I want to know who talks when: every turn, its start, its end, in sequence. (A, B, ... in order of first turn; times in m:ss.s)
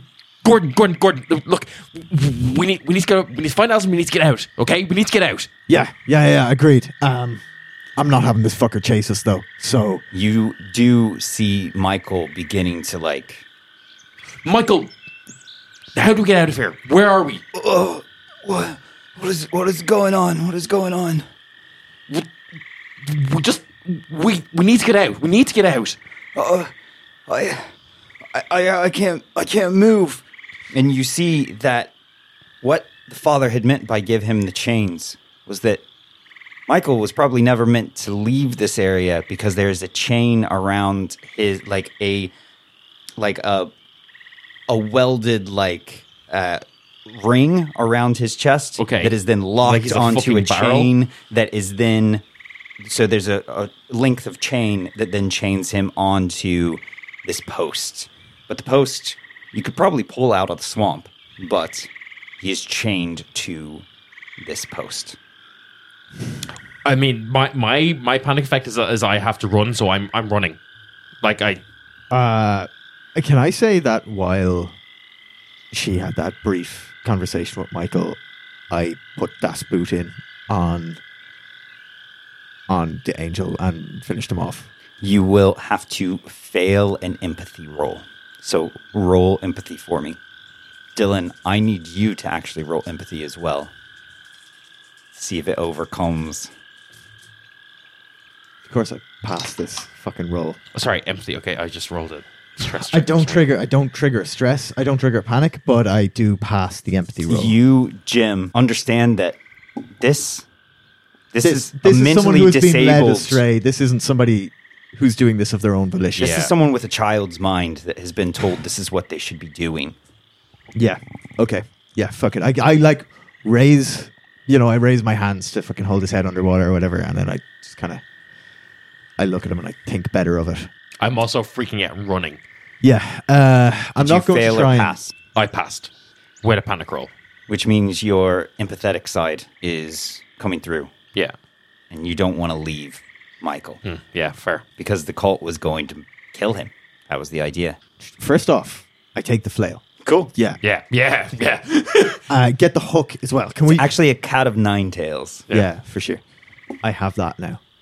0:00.4-0:05.5 A
0:05.7-0:07.4 B
0:08.0-0:10.0 B
0:10.1-0:13.4 C
0:14.4-0:14.9 A
0:16.0-0:17.4 A
0:17.5-0:21.2 C
0:23.0-0:26.0 A
0:26.4-0:26.7 C
0:27.3-0:27.7 C
0:28.3-0:31.9 C
0:32.6-0:35.8 C
0:36.7-0:42.3 C
0:43.2-0:43.7 C
0:44.7-0:52.2 C
0:48.8-0:50.9 A
0:52.8-1:01.9 C
1:02.4-1:03.8 C
1:04.4-1:05.2 C
1:06.8-1:10.6 A
1:11.2-1:11.6 A
1:12.1-1:14.8 B
1:15.7-1:18.2 B
1:18.7-1:21.0 B
1:22.7-1:24.7 B
1:25.0-1:30.2 C
1:31.0-1:33.7 C
1:35.2-1:36.5 C
1:38.6-1:40.6 B
1:40.8-1:43.5 A
1:42.8-1:47.6 B
1:47.3-1:49.4 C
1:50.0-1:50.4 C
1:51.3-1:53.4 C
1:51.4-1:56.5 B
1:56.2-2:00.0 C
1:56.2-1:56.5 A
2:00.8-2:08.0 B
2:09.2-2:10.7 B
2:11.0-2:12.4 A
2:12.8-2:15.0 B
2:14.0-2:15.1 C
2:15.4-2:15.9 A
2:16.4-2:17.1 A
2:17.5-2:20.9 C
2:21.9-2:23.8 C
2:23.8-2:24.6 A
2:24.8-2:27.8 C
2:28.2-2:30.6 B
2:30.0-2:30.3 C
2:30.6-2:32.2 A
2:32.3-2:33.9 B
2:33.7-2:35.5 C
2:35.5-2:36.2 B
2:36.8-2:37.6 B